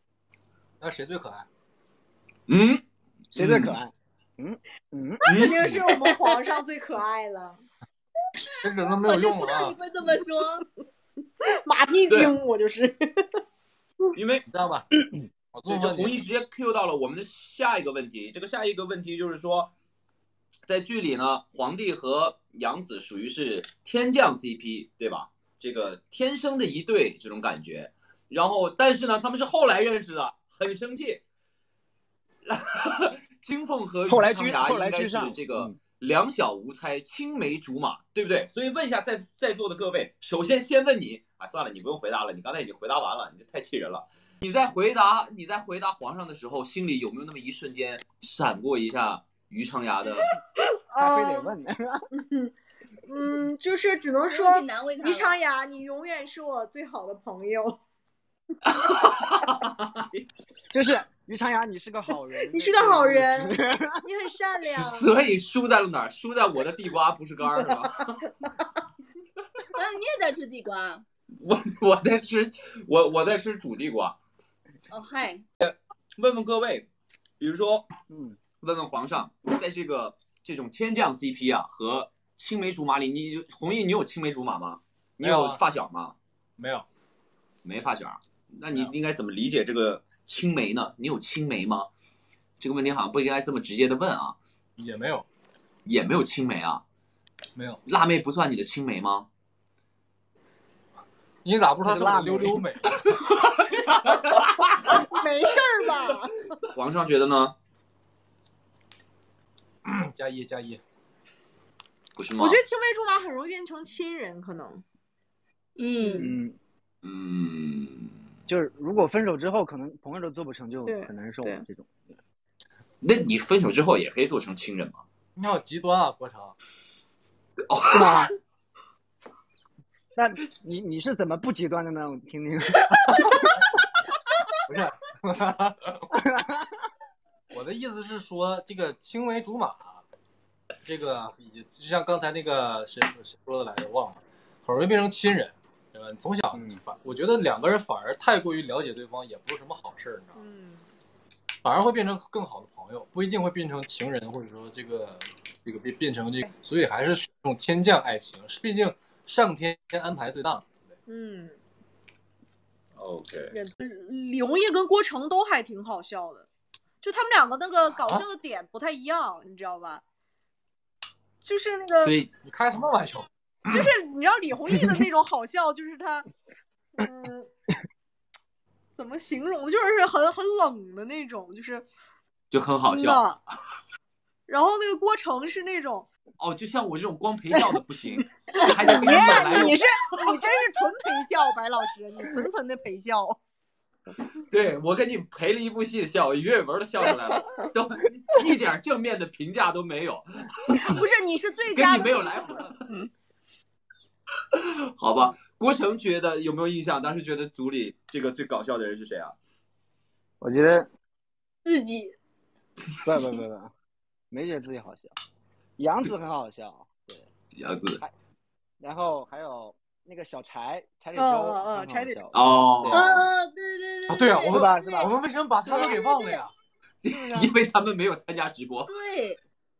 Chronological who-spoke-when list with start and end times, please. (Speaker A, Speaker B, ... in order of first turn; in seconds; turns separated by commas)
Speaker A: 0.8-1.5, Speaker B: 2.5-2.8, Speaker C: 3.3-5.2, Speaker B: 3.4-3.8, Speaker B: 5.2-5.8, Speaker D: 5.2-7.6, Speaker A: 8.6-9.8, Speaker E: 9.0-10.6, Speaker D: 11.6-13.4, Speaker B: 14.1-14.4, Speaker A: 14.5-14.9, Speaker A: 15.5-16.2, Speaker B: 15.7-19.7, Speaker B: 20.7-31.2, Speaker B: 32.4-50.3, Speaker C: 34.1-35.8, Speaker D: 50.9-51.5, Speaker C: 51.0-52.0, Speaker D: 52.2-57.8, Speaker E: 54.2-55.3, Speaker B: 58.7-60.2, Speaker C: 60.7-64.0, Speaker D: 62.5-65.1, Speaker B: 64.7-68.2, Speaker E: 69.7-71.0, Speaker B: 71.4-74.2, Speaker E: 74.9-75.4, Speaker B: 75.6-76.9, Speaker B: 77.4-77.9, Speaker C: 78.1-78.4, Speaker B: 78.6-86.1, Speaker A: 85.2-85.6, Speaker A: 86.6-86.8, Speaker B: 87.6-91.9, Speaker B: 92.6-94.3, Speaker A: 94.8-95.2, Speaker B: 95.8-96.8, Speaker A: 97.5-97.8, Speaker B: 97.8-99.3, Speaker A: 101.4-102.9, Speaker C: 101.8-102.6, Speaker B: 103.0-105.1, Speaker D: 104.8-106.5, Speaker B: 106.6-107.5, Speaker A: 109.8-110.8, Speaker B: 112.2-112.6, Speaker D: 112.4-114.8, Speaker E: 115.8-116.3, Speaker D: 116.0-116.3, Speaker C: 116.2-116.6, Speaker B: 117.0-118.1, Speaker C: 118.5-122.1, Speaker D: 120.8-121.6, Speaker B: 123.0-125.0, Speaker A: 125.4-126.5, Speaker B: 127.7-128.3, Speaker C: 127.9-128.3, Speaker C: 130.1-132.9, Speaker A: 134.7-136.0, Speaker C: 136.1-136.7, Speaker A: 137.5-140.0, Speaker A: 140.8-150.4, Speaker C: 146.5-146.8, Speaker D: 150.3-150.9, Speaker A: 151.6-160.6, Speaker D: 161.1-161.6, Speaker B: 163.0-163.5, Speaker D: 163.5-166.5, Speaker D: 167.0-170.0, Speaker D: 171.4-172.1, Speaker B: 172.0-172.3, Speaker A: 172.4-173.9, Speaker D: 173.7-176.2, Speaker D: 177.0-177.5, Speaker D: 178.9-181.9, Speaker B: 182.5-183.2, Speaker D: 182.8-183.4, Speaker D: 184.5-186.1, Speaker B: 186.4-190.4, Speaker D: 188.6-193.4, Speaker B: 194.4-200.8, Speaker D: 200.7-202.7, Speaker B: 201.7-203.0, Speaker B: 204.5-209.3, Speaker C: 210.4-210.9, Speaker E: 211.6-212.1, Speaker C: 213.0-213.7, Speaker C: 214.3-215.2, Speaker C: 215.8-217.3, Speaker B: 217.6-218.0, Speaker C: 218.8-223.3, Speaker D: 221.1-222.2, Speaker B: 222.3-223.2, Speaker E: 222.9-225.1, Speaker A: 224.1-226.5, Speaker C: 224.5-225.1, Speaker C: 225.7-225.9, Speaker E: 225.7-226.5, Speaker B: 227.0-228.9, Speaker D: 227.1-227.5, Speaker E: 228.8-229.4